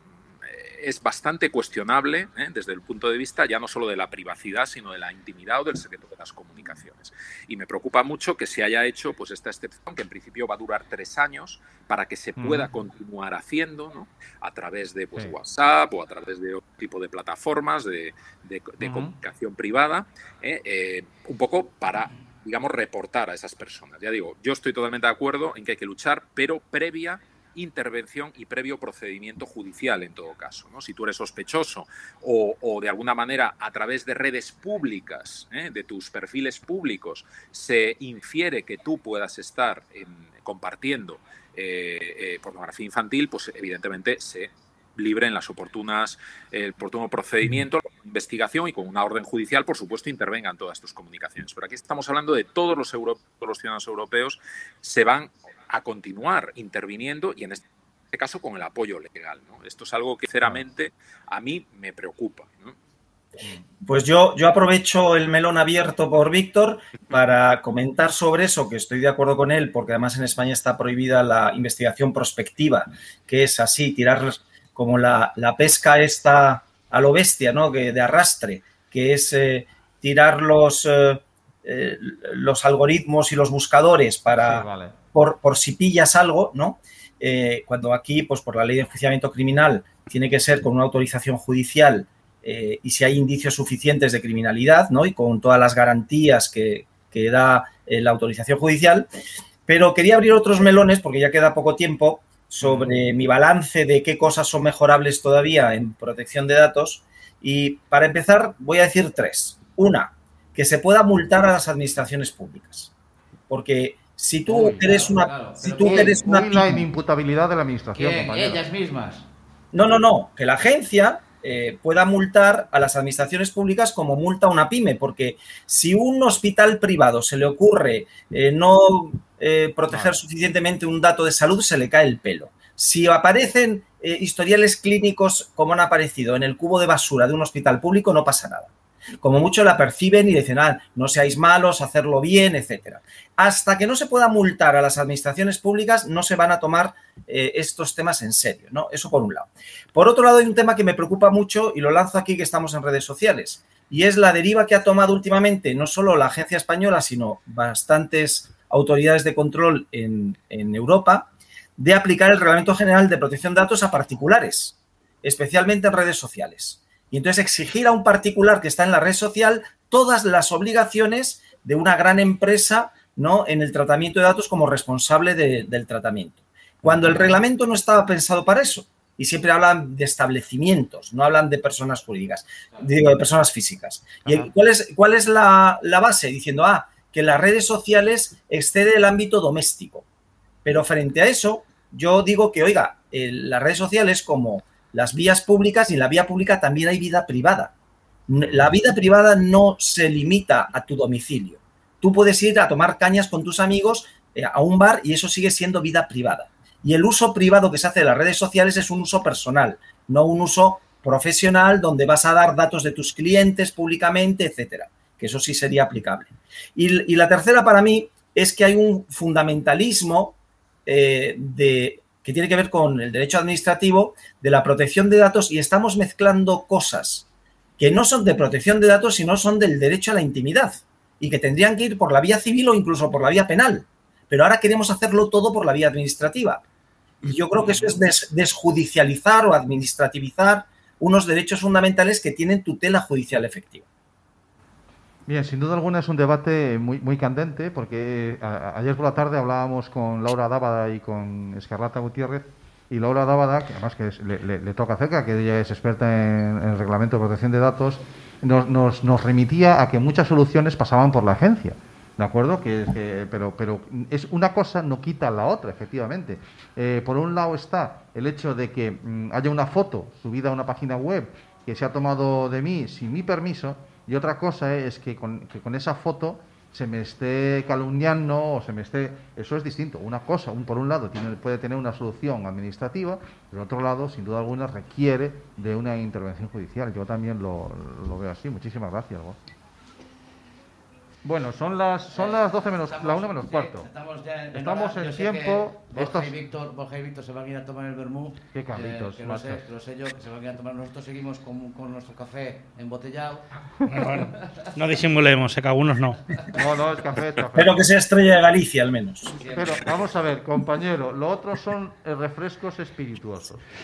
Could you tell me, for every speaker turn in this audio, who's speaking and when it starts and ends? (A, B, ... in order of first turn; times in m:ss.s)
0:00.4-1:02.8 A
0:12.4-0:12.7 B
0:18.8-0:19.1 B
1:03.9-1:39.1 C
1:24.4-1:25.0 B
1:39.7-1:52.9 C
1:42.6-1:43.0 B
1:53.5-1:56.8 C
1:54.4-1:56.2 D
1:55.8-1:58.6 B
1:58.0-1:59.3 D
1:59.7-3:10.0 C
2:09.9-2:10.2 B
2:56.8-2:57.3 B
3:04.2-3:04.5 B
3:10.6-3:17.7 C
3:18.3-3:47.3 C
3:47.8-3:56.6 C
3:57.2-4:03.8 C
3:57.6-3:58.0 B
4:05.3-4:49.4 B
4:51.2-4:53.9 B
4:52.1-5:03.4 D
4:54.5-4:56.3 B
4:58.5-4:59.6 B
5:03.9-5:06.2 E
5:04.1-5:04.7 D
5:06.5-5:07.9 B
5:07.6-5:09.3 C
5:09.3-5:09.9 D
5:09.5-5:13.6 B